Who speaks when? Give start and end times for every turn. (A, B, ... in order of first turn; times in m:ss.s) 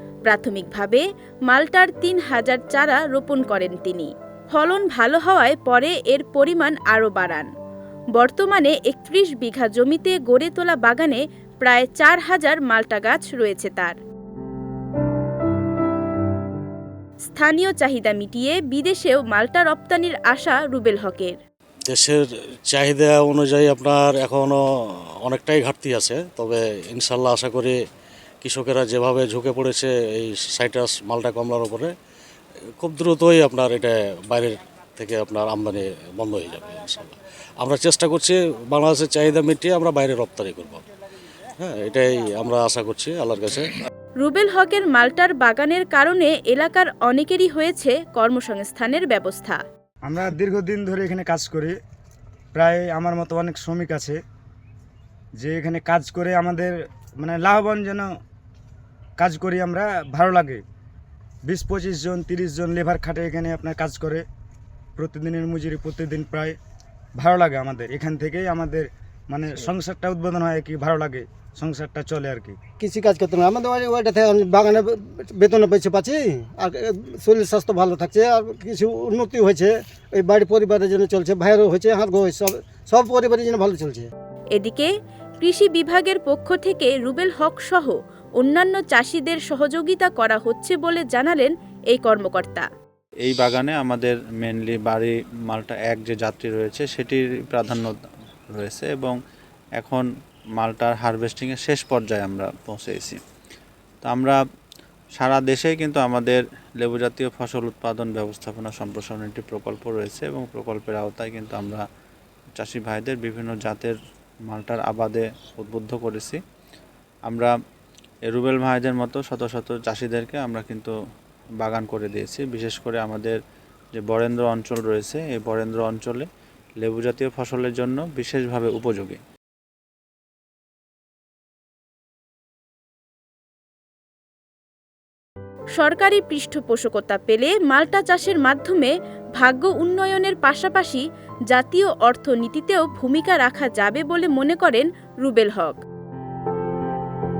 0:00.2-0:07.5 A
0:08.1-0:14.0 A
0:17.3-0:21.4 A
0:21.9-0:24.6 B
0:25.2-0:27.8 B
0:28.4-0:31.9 B
0:32.8-0:40.8 B
0:41.6-0:43.7 B
0:44.2-0:49.6 A
0:50.0-0:51.7 C
0:52.6-0:54.2 C
0:55.4-0:58.1 C
0:59.2-1:00.6 C
1:01.4-1:04.2 C
1:05.0-1:06.5 C
1:07.2-1:12.6 C
1:12.8-1:24.1 D
1:24.5-1:32.6 A
1:33.2-1:37.9 E
1:38.5-1:39.2 E
1:39.8-1:40.0 E
1:40.6-1:43.2 E
1:44.0-1:44.4 E
1:45.2-1:51.8 E
1:52.6-1:53.9 E
1:54.5-1:56.4 E
1:57.3-1:57.5 E
1:58.3-2:00.9 E
2:01.6-2:03.4 E
2:03.9-2:06.2 E
2:06.8-2:09.2 E
2:15.8-2:25.8 A